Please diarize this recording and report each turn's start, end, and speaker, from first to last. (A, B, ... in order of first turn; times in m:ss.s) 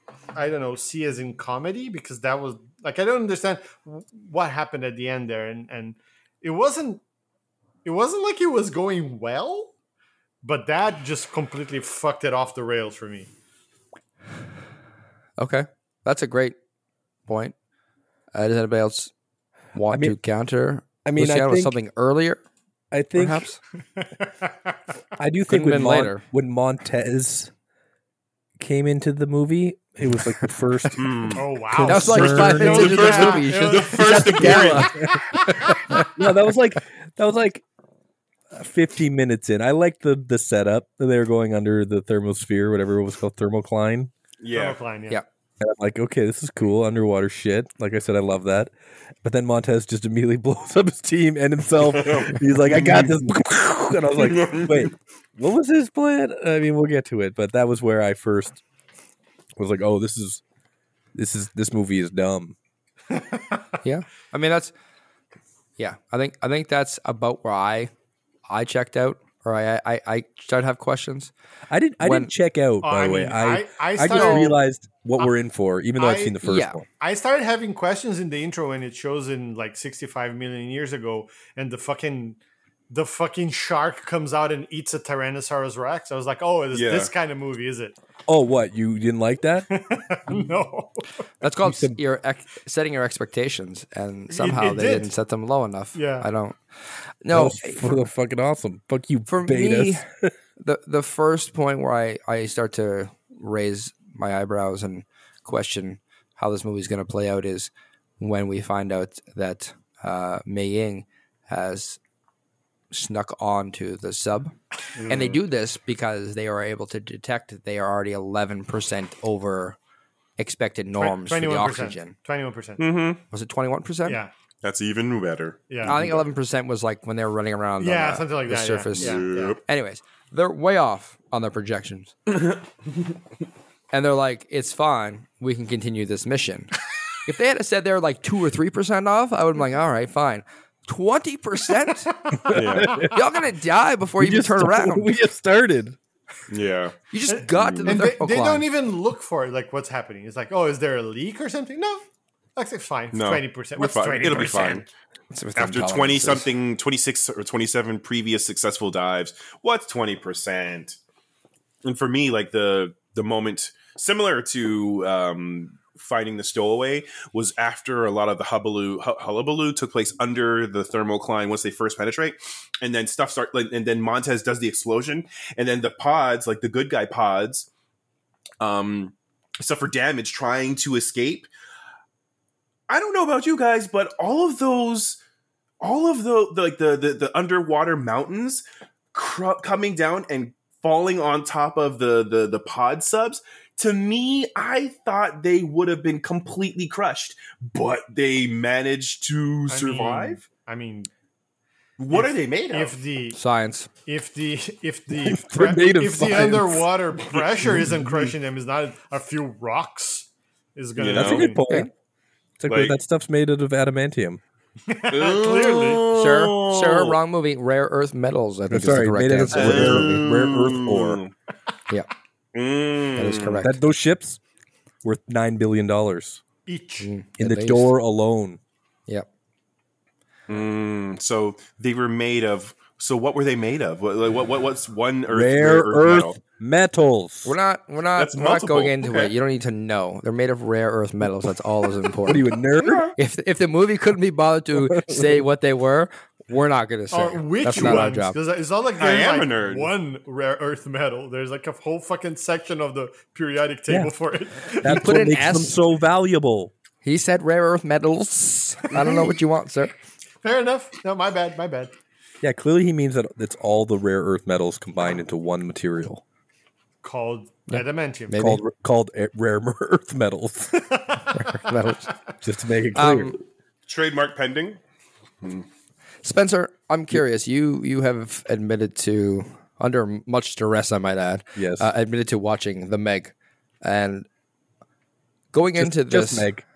0:00.4-0:07.0 A
0:07.8-0:09.7 A
0:10.4-0:13.3 A
0:15.4-0:16.6 B
0:17.3-0:17.6 B
0:18.3-0:19.1 B
0:19.7-0:22.4 B
0:19.9-0:20.2 C
0:21.0-0:21.7 C
0:22.9-0:23.5 C
0:23.2-0:23.6 B
0:24.0-0:24.8 A
0:25.2-0:27.5 C
0:25.5-0:26.2 B
0:28.6-0:33.0 C
0:31.0-0:31.4 D
0:31.4-0:36.0 A
0:31.8-0:36.1 B
0:32.5-0:35.0 D
0:34.3-0:37.6 C
0:38.5-0:44.1 C
0:44.4-0:44.8 D
0:44.5-0:45.2 A
0:45.6-0:48.7 C
0:49.2-0:58.6 C
0:51.8-0:53.2 D
0:54.2-0:54.9 D
0:59.6-1:00.4 C
1:01.2-1:02.6 C
1:03.1-1:03.6 A
1:03.8-1:04.7 B
1:05.8-1:07.9 B
1:08.5-1:11.3 B
1:11.7-1:16.9 C
1:12.0-1:12.3 B
1:12.8-1:14.6 A
1:14.1-1:14.5 B
1:16.0-1:16.4 A
1:16.4-1:16.8 B
1:16.9-1:22.4 A
1:22.9-1:28.0 A
1:26.7-1:27.1 D
1:28.3-1:29.7 C
1:29.7-1:31.1 A
1:31.4-1:36.6 B
1:31.6-1:32.0 C
1:34.3-1:35.1 A
1:35.9-1:36.3 A
1:37.2-1:37.9 B
1:37.3-1:40.3 C
1:39.3-1:40.0 B
1:40.6-1:52.0 B
1:52.9-1:54.5 B
1:55.0-1:55.4 D
1:55.1-1:59.8 B
2:00.4-2:02.1 B
2:01.0-2:02.9 A
2:02.8-2:03.2 D
2:03.3-2:04.2 B
2:04.1-2:04.3 A
2:04.6-2:06.1 D
2:05.7-2:06.2 A
2:05.8-2:12.1 B
2:07.8-2:09.6 A
2:09.0-2:09.6 D
2:13.9-2:16.7 B
2:17.2-2:25.1 B
2:22.5-2:23.2 C
2:22.5-2:23.0 D
2:24.2-2:26.0 C
2:26.5-2:27.0 D
2:27.1-2:28.7 B
2:27.3-2:32.0 A
2:27.6-2:28.0 D
2:32.6-2:34.9 A
2:33.1-2:34.9 D
2:35.3-2:36.5 B
2:35.6-2:41.0 D
2:41.8-2:57.7 D
2:58.6-3:01.5 D
3:02.9-3:05.2 D
3:05.8-3:20.4 D
3:19.7-3:21.1 A
3:22.0-3:23.0 D
3:22.1-3:23.4 A
3:23.3-3:23.9 B
3:24.0-3:31.6 A
3:25.1-3:26.9 C
3:27.3-3:27.9 D
3:31.0-3:31.5 D
3:31.1-3:31.9 C
3:32.6-3:34.4 C
3:32.7-3:33.0 D
3:34.9-3:36.0 A
3:35.1-3:37.2 D
3:36.1-3:40.3 B
3:38.7-3:41.2 C
3:39.5-3:41.3 D
3:42.5-3:43.6 D
3:43.2-3:43.8 B
3:43.6-3:44.4 C
3:45.0-3:46.4 C
3:46.7-3:47.1 A
3:47.0-3:47.9 B
3:47.4-3:48.6 C
3:50.5-3:56.4 D
3:55.3-3:57.6 C
3:57.4-4:02.5 B
3:58.2-3:59.3 D
4:02.2-4:03.1 C
4:02.8-4:03.2 D
4:03.2-4:08.4 B
4:04.9-4:05.4 C
4:07.1-4:15.1 A
4:07.8-4:08.0 C
4:09.0-4:09.9 D
4:13.9-4:14.1 C
4:14.7-4:16.7 C
4:14.8-4:15.8 B
4:17.0-4:19.9 B
4:19.0-4:19.3 A
4:20.4-4:21.9 A
4:22.4-4:26.2 C
4:27.0-4:28.4 A
4:27.7-4:28.6 B
4:28.4-4:30.8 C
4:30.8-4:31.7 A
4:31.4-4:32.1 B
4:32.4-4:33.4 C
4:33.0-4:33.4 B
4:33.9-4:34.8 D
4:36.2-4:44.3 B
4:41.6-4:41.9 C
4:45.5-4:46.5 B
4:45.8-4:46.6 C